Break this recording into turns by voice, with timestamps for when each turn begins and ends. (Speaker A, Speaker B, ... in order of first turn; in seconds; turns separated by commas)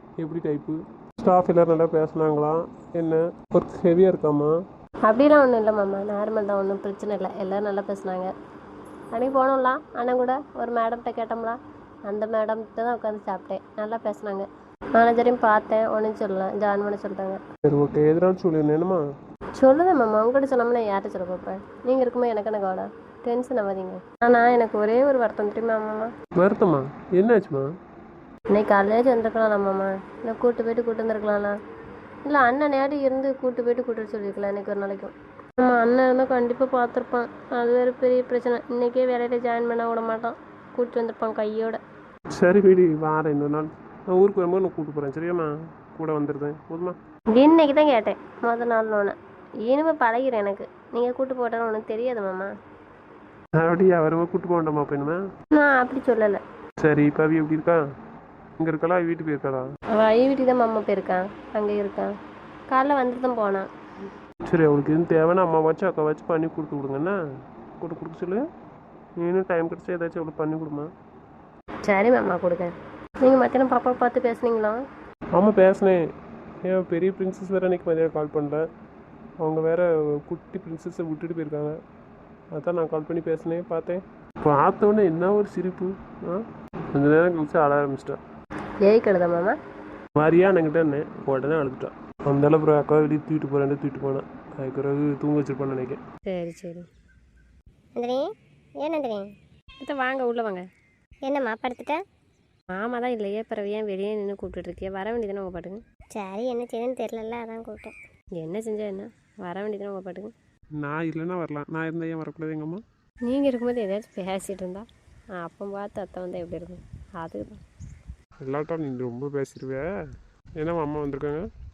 Speaker A: 0.2-4.6, Speaker B: 5.1-8.3, Speaker B: 9.1-17.4, Speaker A: 17.6-19.0, Speaker B: 19.6-26.1, Speaker A: 26.4-27.7, Speaker B: 28.5-31.6, Speaker B: 32.2-41.8, Speaker A: 42.3-47.0, Speaker B: 47.4-52.5, Speaker A: 53.6-55.2, Speaker B: 55.5-56.4, Speaker A: 56.8-57.8, Speaker A: 58.6-59.7, Speaker B: 59.9-62.1, Speaker B: 62.7-63.7, Speaker A: 64.5-67.2, Speaker A: 67.8-68.5, Speaker A: 69.2-70.9, Speaker B: 71.8-74.8, Speaker A: 75.3-76.0, Speaker A: 76.6-78.6, Speaker A: 79.4-81.8, Speaker A: 82.5-88.2, Speaker B: 88.8-89.6, Speaker A: 90.2-96.0, Speaker B: 96.3-96.9, Speaker C: 98.0-98.3, Speaker C: 98.8-99.3, Speaker B: 99.8-100.7, Speaker C: 101.2-102.0, Speaker B: 102.7-105.8, Speaker C: 106.1-107.9, Speaker B: 108.4-110.3, Speaker A: 110.8-112.8, Speaker B: 113.3-114.9, Speaker B: 115.4-117.6, Speaker A: 118.4-119.9, Speaker A: 120.6-121.5